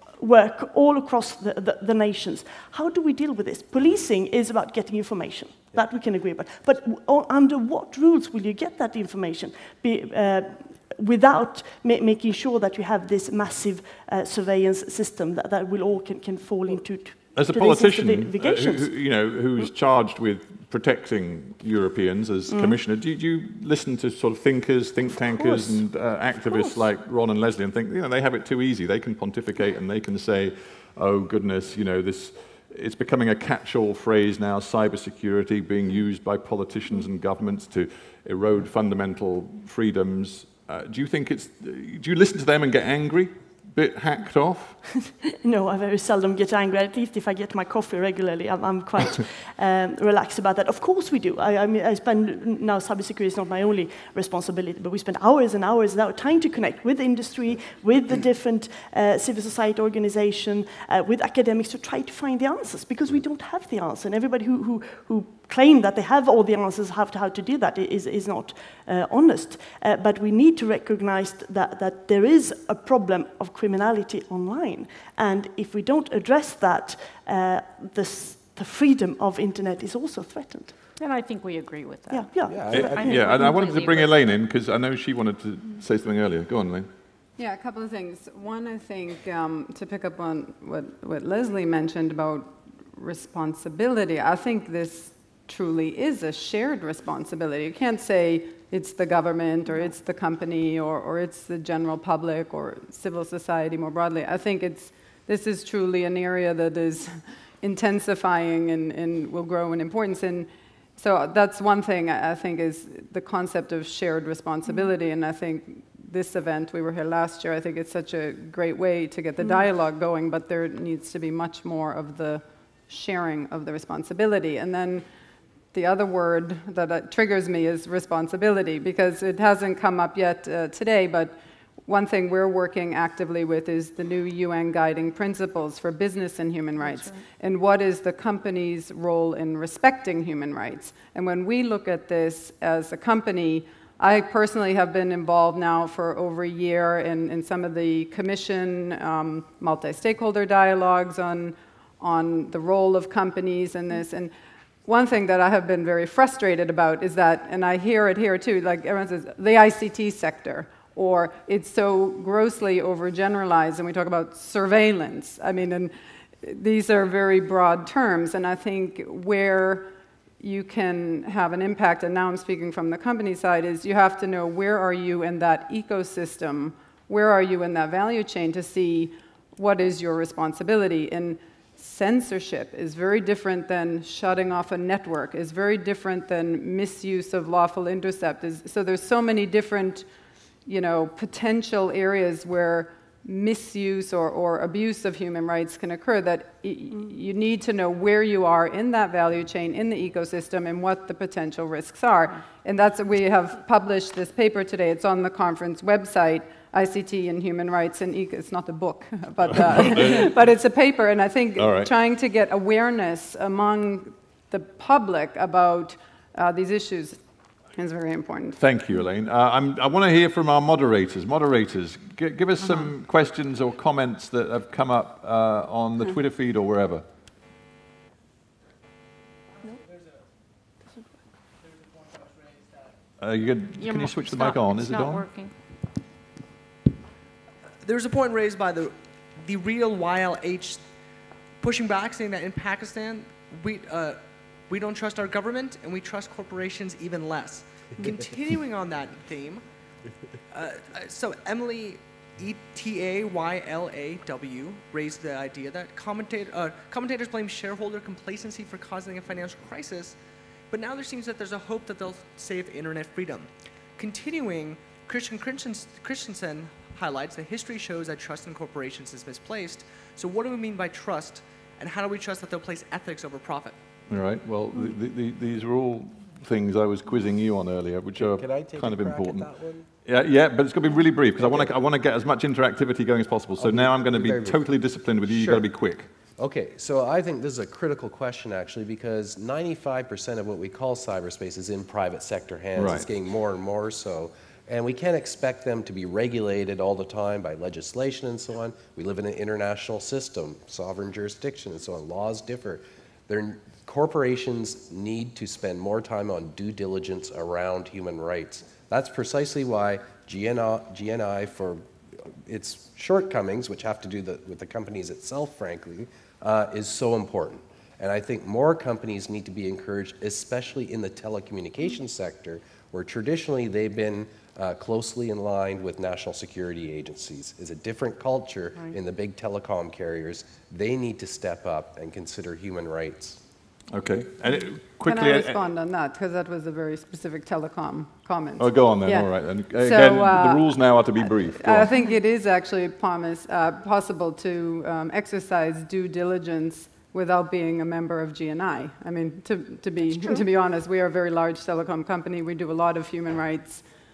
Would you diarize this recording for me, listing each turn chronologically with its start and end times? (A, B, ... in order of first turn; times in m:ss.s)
0:00.2-0:19.0 A
0:17.3-0:44.8 B
0:22.5-0:22.8 A
0:25.3-0:25.8 A
0:26.4-0:26.8 A
0:45.1-1:20.8 A
1:21.0-1:24.1 C
1:22.1-1:23.5 A
1:22.5-1:23.0 D
1:22.7-1:26.9 B
1:27.4-2:05.0 E
2:05.7-2:34.3 E
2:16.8-2:17.2 C
2:34.8-3:10.1 E
3:10.6-3:37.2 E
3:29.5-3:30.3 B
3:31.6-3:31.9 B
3:37.8-3:38.6 E
3:38.6-3:47.0 B
3:53.2-3:55.2 B
3:53.8-3:55.5 C
3:57.8-4:00.9 F
4:01.6-4:09.6 F
4:10.5-4:20.2 F
4:20.7-4:33.8 F
4:34.1-4:39.5 B
4:38.2-4:39.9 D
4:40.0-4:46.1 B
4:41.4-4:41.7 D
4:43.6-4:44.6 D
4:45.2-4:45.7 D
4:46.4-5:11.8 D
4:52.7-4:53.1 B
5:12.4-5:33.4 D
5:33.9-5:35.6 B
5:35.0-5:53.8 E
5:38.6-5:41.9 B